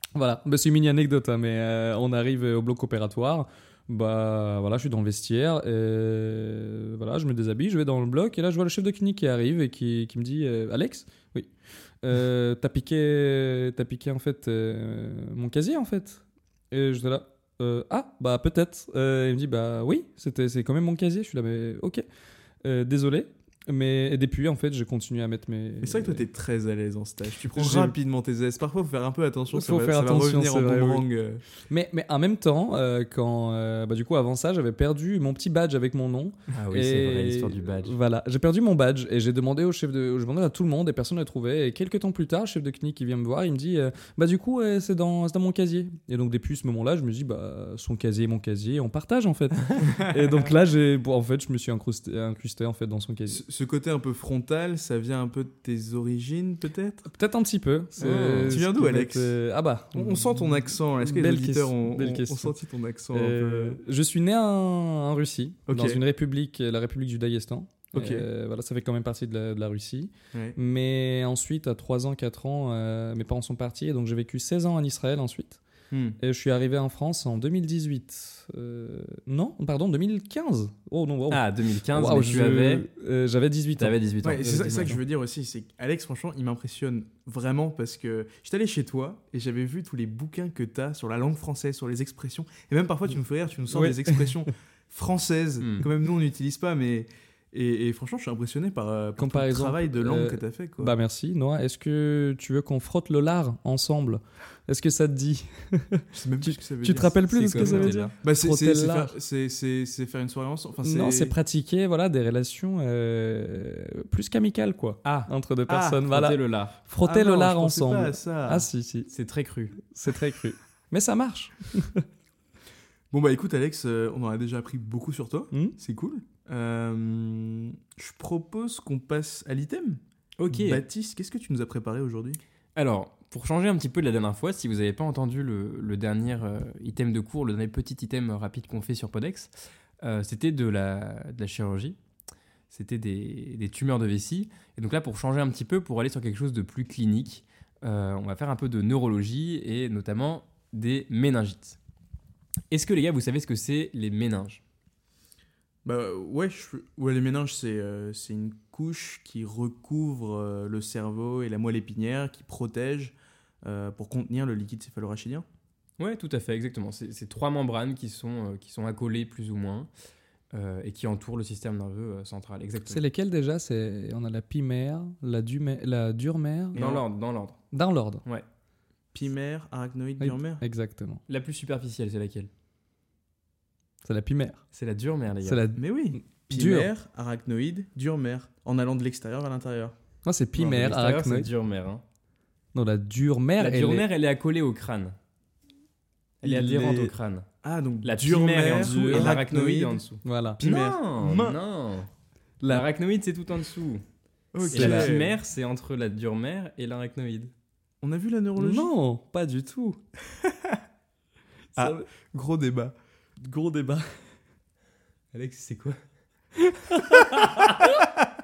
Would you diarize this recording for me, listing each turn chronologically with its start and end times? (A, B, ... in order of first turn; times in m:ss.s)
0:00.1-0:11.5 A
0:12.0-0:22.0 A
0:22.6-0:26.2 A
0:25.8-0:31.4 B
0:27.5-0:27.9 A
0:29.5-0:31.0 A
0:31.7-0:53.4 A
0:36.5-0:38.0 C
0:49.8-0:50.4 B
0:53.3-0:57.1 B
0:57.1-1:02.5 A
0:58.0-0:59.4 B
0:58.0-0:58.6 C
0:59.9-1:03.8 B
1:03.1-1:15.6 A
1:05.7-1:06.0 B
1:07.9-1:08.3 B
1:15.9-1:16.2 B
1:16.2-1:25.0 A
1:21.3-1:22.9 C
1:23.8-1:24.9 C
1:24.2-1:40.9 B
1:33.7-1:34.4 A
1:35.6-1:35.9 C
1:39.2-1:49.1 A
1:46.1-1:51.4 B
1:47.3-1:48.1 C
1:50.8-1:59.1 A
1:55.0-1:55.3 C
1:55.7-1:56.0 B
1:56.1-1:56.8 C
1:57.0-1:58.7 B
1:59.1-1:59.8 C
1:59.8-2:02.0 A
2:03.1-2:12.4 B
2:10.4-2:10.8 C
2:12.8-2:22.0 C
2:22.7-2:31.8 C
2:32.7-2:34.6 C
2:35.8-2:45.4 B
2:46.0-2:49.9 C
2:50.5-2:53.0 C
2:52.8-2:56.8 A
2:56.7-2:57.0 B
2:56.7-2:57.6 C
2:57.7-2:58.2 A
2:59.1-3:00.6 B
3:00.2-3:01.2 A
3:01.3-3:02.5 C
3:04.0-3:04.6 A
3:04.7-3:05.6 C
3:05.4-3:06.9 A
3:05.7-3:09.9 B
3:10.2-3:11.5 A
3:10.6-3:12.0 C
3:12.7-3:14.0 A
3:13.6-3:15.1 C
3:16.4-3:17.5 C
3:16.4-3:17.1 B
3:17.6-3:20.0 B
3:18.0-3:22.1 C
3:18.8-3:19.4 A
3:20.2-3:20.6 A
3:20.6-3:21.6 B
3:22.7-3:24.0 C
3:24.5-3:25.4 B
3:24.6-3:25.1 A
3:24.7-3:27.5 C
3:28.0-3:28.9 B
3:28.6-3:30.0 A
3:30.4-3:30.8 B
3:31.7-3:32.0 A
3:31.8-3:32.9 B
3:33.4-3:34.2 A
3:35.3-3:36.0 C
3:36.6-3:38.0 A